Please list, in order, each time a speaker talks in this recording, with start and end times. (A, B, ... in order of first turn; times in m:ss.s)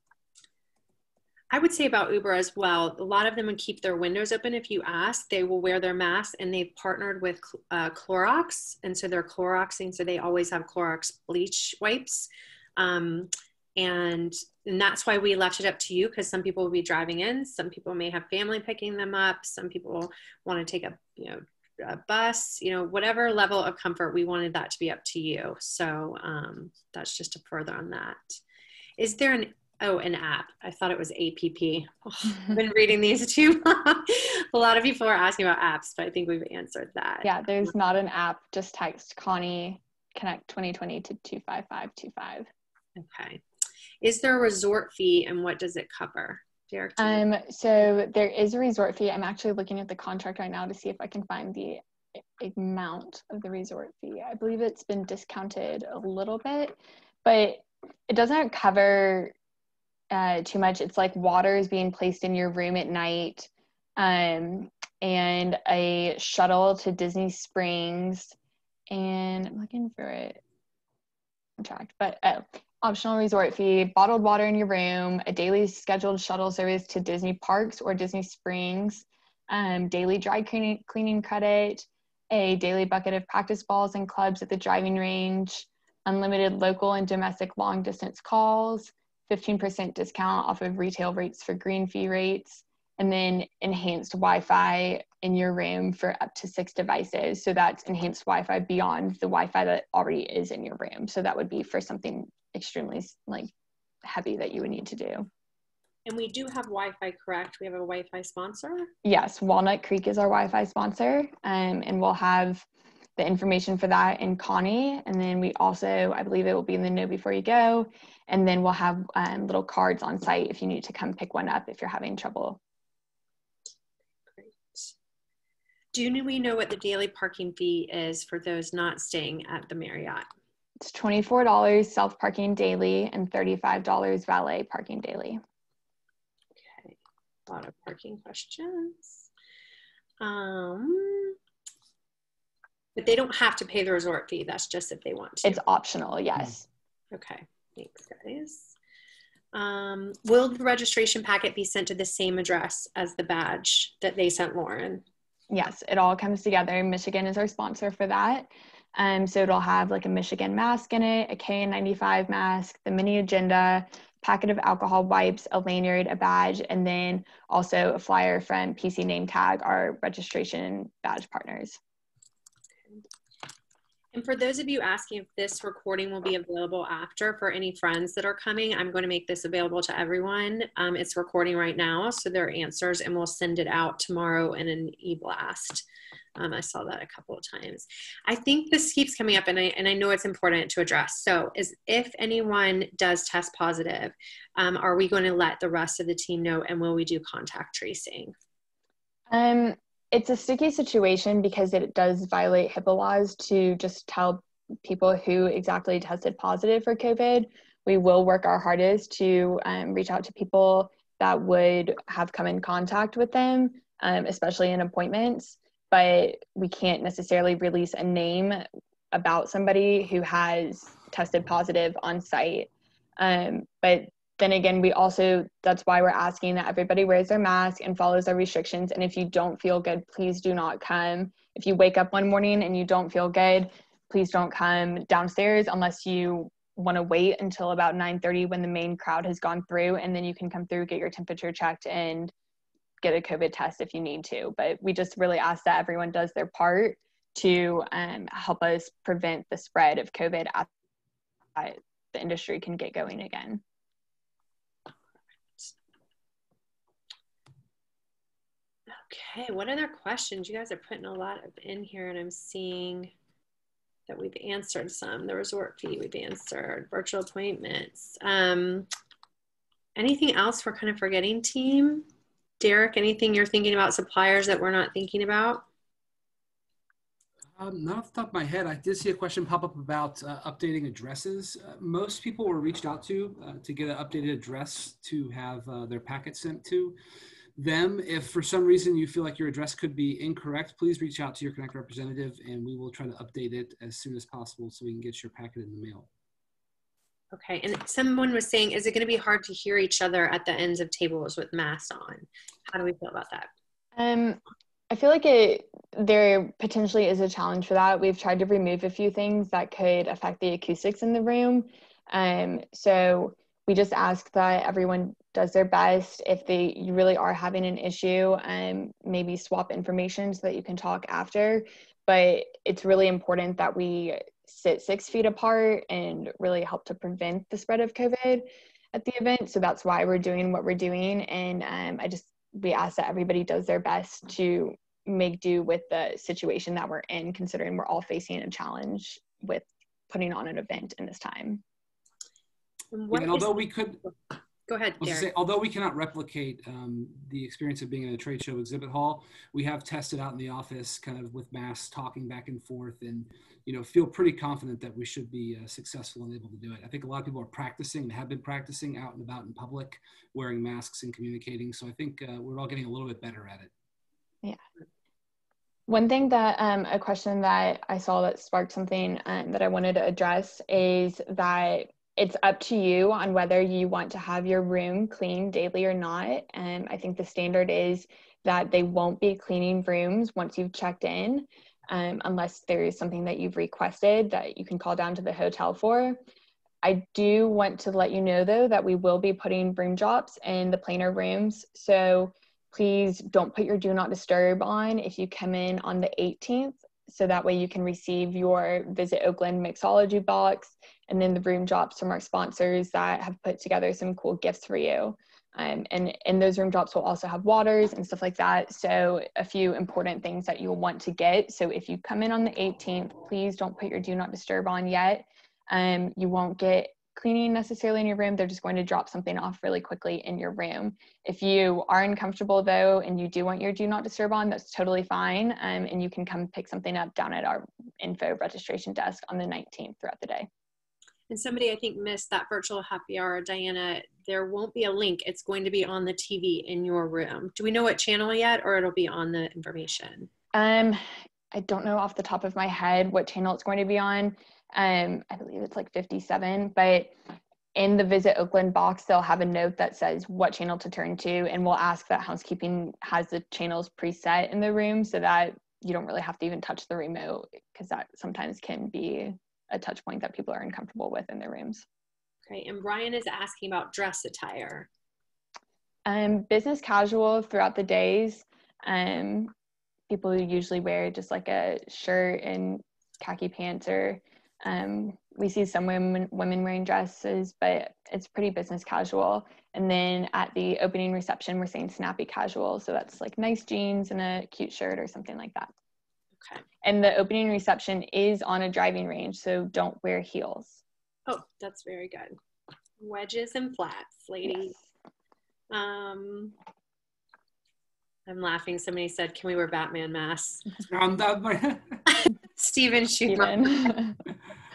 0:01.5-0:28.4 A
0:29.0-0:37.3 A
0:37.2-0:42.5 B
0:43.0-0:43.4 A
0:44.0-0:47.2 A
0:47.0-0:51.8 B
0:52.4-0:59.3 B
1:00.1-1:08.4 B
1:08.9-1:10.4 B
1:11.6-1:43.5 B
1:44.0-1:45.3 B
1:46.1-1:48.9 A
1:49.0-1:52.7 B
1:53.2-2:02.6 B
2:04.4-2:04.9 A
2:05.9-2:10.3 A
2:10.8-2:15.4 B
2:16.6-2:17.0 A
2:17.5-2:19.3 A
2:20.2-2:21.4 A
2:23.0-2:25.6 A
2:25.4-2:26.6 B
2:27.1-2:28.8 A
2:29.5-2:35.0 A
2:35.5-2:51.8 B
2:54.1-3:18.3 A
3:19.3-4:02.3 B
4:03.0-4:10.7 B
4:11.6-4:13.6 B
4:18.9-4:23.1 A
4:24.1-4:28.9 A
4:30.0-4:32.1 A
4:32.6-4:35.7 A
4:37.6-4:47.0 C
4:47.6-4:56.1 C
4:57.3-5:03.5 A
5:04.0-5:04.4 B
5:04.9-5:41.6 B
5:42.9-5:43.5 A
5:43.1-5:44.0 C
5:44.7-5:45.3 A
5:45.0-6:03.7 C
6:05.9-6:26.2 B
6:26.8-7:10.5 B
7:11.3-7:20.3 A
7:20.5-7:21.0 B
7:21.5-7:27.2 B
7:27.8-7:41.8 B
7:42.5-7:44.9 A
7:46.1-7:49.5 B
7:50.1-8:05.7 B
8:06.8-8:10.8 B
8:11.3-8:12.4 A
8:13.0-8:14.7 A
8:15.7-8:16.6 A
8:18.3-8:20.7 A
8:20.9-8:22.0 C
8:22.1-8:24.0 A
8:23.3-8:24.2 B